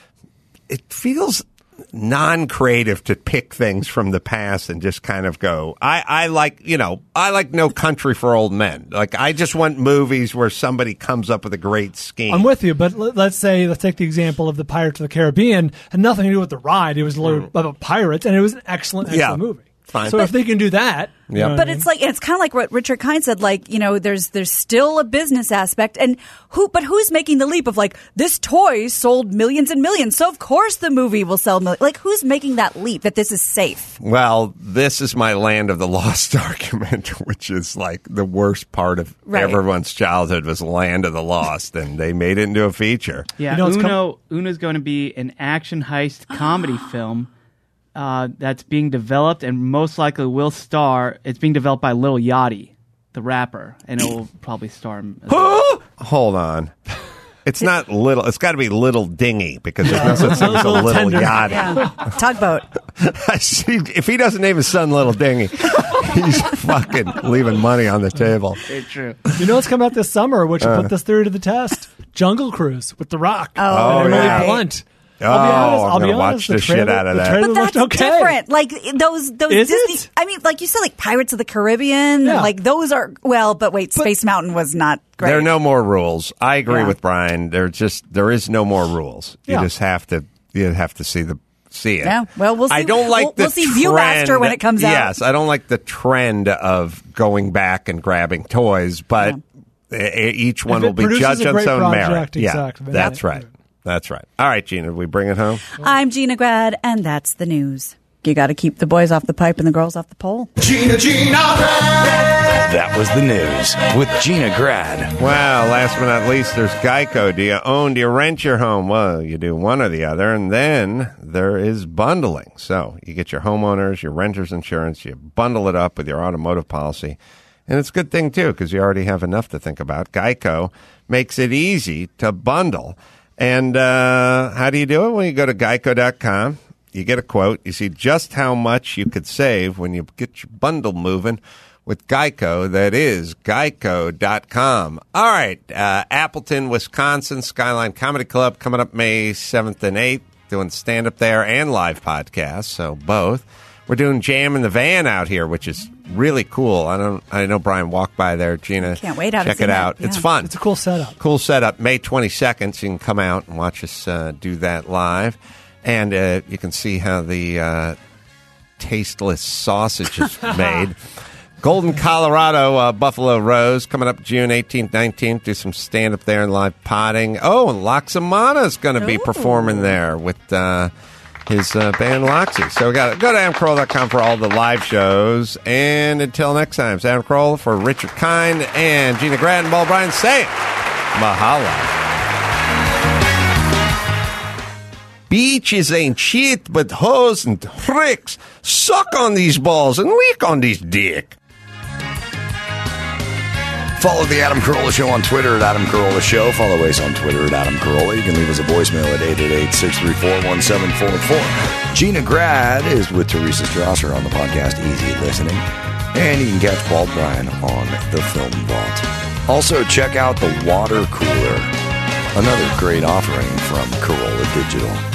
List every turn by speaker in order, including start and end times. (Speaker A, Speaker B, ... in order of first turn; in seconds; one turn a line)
Speaker A: 0.7-12.5
Speaker B: 12.3-21.9
Speaker A: 17.2-17.5
Speaker A: 19.0-20.3
Speaker A: 21.3-21.6
Speaker C: 21.5-34.0
Speaker A: 34.0-43.3
Speaker C: 39.3-39.6
Speaker D: 43.4-47.3
Speaker B: 43.5-44.0
Speaker D: 47.9-55.7
Speaker A: 55.3-56.7
Speaker A: 57.4-62.0
Speaker B: 59.8-61.9
Speaker C: 61.4-62.7
Speaker A: 63.0-68.6
Speaker D: 68.7-69.3
Speaker B: 69.3-78.4
Speaker A: 70.6-70.9
Speaker C: 73.6-74.6
Speaker A: 73.7-74.6
Speaker A: 75.2-77.4
Speaker C: 75.3-75.7
Speaker C: 77.4-85.5
Speaker B: 79.5-80.1
Speaker B: 82.2-82.5
Speaker A: 85.2-99.4
Speaker C: 86.7-86.9
Speaker C: 92.0-95.1
Speaker A: 99.9-105.6
Speaker B: 100.7-103.5
Speaker C: 105.8-110.5
Speaker E: 110.6-112.0
Speaker E: 112.6-115.2
Speaker A: 115.2-160.5
Speaker C: 158.8-160.3
Speaker B: 160.4-161.2
Speaker A: 161.2-168.0
Speaker A: 168.8-171.0
Speaker A: 171.6-180.9
Speaker C: 179.0-179.9
Speaker A: 181.5-190.6
Speaker A: 191.1-191.9
Speaker A: 195.3-201.4
Speaker E: 203.9-221.7
Speaker E: 222.3-225.0